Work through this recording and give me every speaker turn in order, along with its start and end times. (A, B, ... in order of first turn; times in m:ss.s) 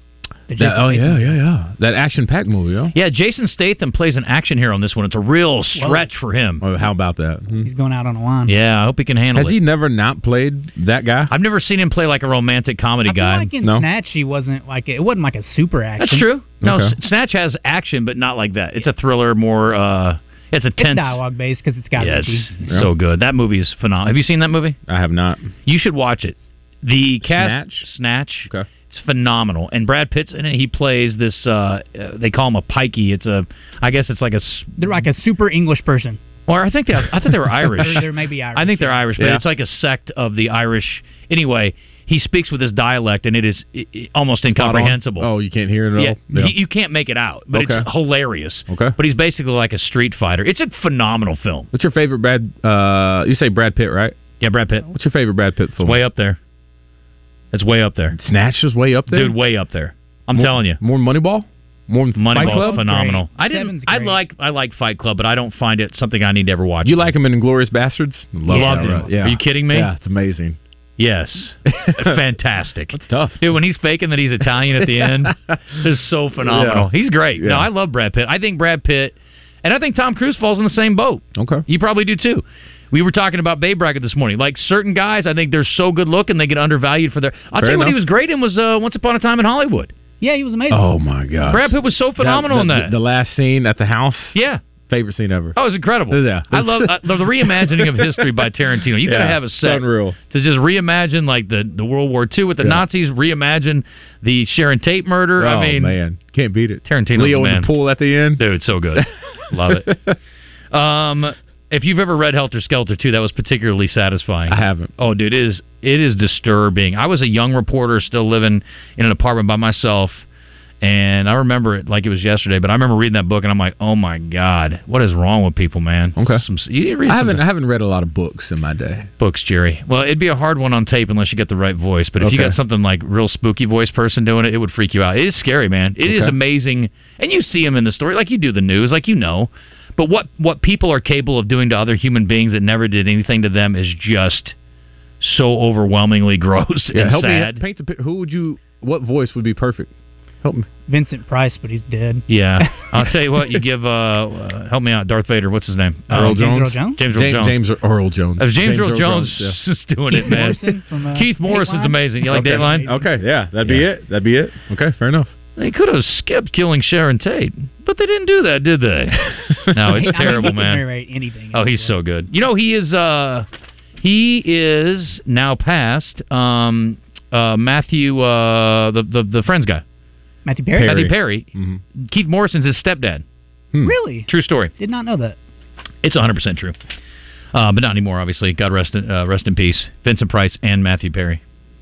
0:00.5-0:01.3 A
0:00.6-0:02.9 B
0:02.9-0:06.6 C
0:05.8-0:06.1 A
0:06.6-0:07.7 B
0:07.6-0:08.5 A
0:08.4-0:09.6 C
0:09.3-0:11.3 B
0:11.3-0:13.5 C
0:13.0-0:16.3 A
0:13.6-0:13.8 B
0:16.0-0:21.2 C
0:16.6-0:16.9 B
0:20.8-0:22.6 A
0:22.0-0:24.8 C
0:24.9-0:25.5 B
0:25.6-0:34.8 C
0:27.2-0:27.9 B
0:34.8-0:36.2 A
0:36.5-0:45.3 C
0:37.8-0:39.1 A
0:39.2-0:39.4 B
0:44.5-0:46.5 B
0:46.0-0:51.7 C
0:47.5-0:47.9 B
0:48.7-0:48.9 B
0:51.7-0:54.1 B
0:54.4-0:54.9 C
0:54.9-0:56.0 B
0:55.8-0:56.4 C
0:57.5-0:58.2 C
0:58.1-0:59.4 B
0:59.1-1:00.8 C
1:00.3-1:02.8 B
1:02.2-1:07.1 C
1:02.3-1:04.2 A
1:06.8-1:10.6 B
1:08.5-1:09.9 C
1:08.5-1:09.3 A
1:11.0-1:29.9 C
1:11.7-1:12.2 B
1:12.9-1:13.4 B
1:14.7-1:15.6 B
1:16.4-1:17.7 B
1:21.3-1:21.6 B
1:27.6-1:28.0 B
1:30.2-1:30.9 A
1:30.7-1:34.4 B
1:31.5-1:32.9 C
1:34.3-1:34.6 C
1:34.9-1:35.6 B
1:35.6-1:46.0 C
1:36.1-1:38.4 B
1:39.0-1:40.2 B
1:45.4-1:48.4 B
1:46.8-1:47.7 C
1:48.4-1:49.9 C
1:49.6-1:50.2 B
1:50.7-2:00.2 C
1:54.5-1:54.9 B
2:00.8-2:07.4 C
2:06.2-2:06.4 B
2:07.0-2:09.1 B
2:09.2-2:24.5 C
2:12.2-2:12.6 B
2:16.0-2:16.3 B
2:25.2-2:27.6 C
2:26.9-2:30.7 B
2:30.9-2:32.9 A
2:32.3-2:37.6 C
2:36.1-2:37.0 A
2:36.1-2:39.6 B
2:38.4-2:42.9 C
2:40.1-2:43.1 A
2:42.3-2:45.3 B
2:45.6-2:50.8 C
2:49.8-2:50.5 B
2:49.9-2:52.0 A
2:51.5-2:53.5 C
2:54.0-2:59.8 C
3:00.4-3:01.1 A
3:00.8-3:01.8 B
3:00.8-3:03.2 C
3:03.8-3:05.4 A
3:04.3-3:04.7 C
3:06.0-3:06.8 C
3:07.5-3:11.4 C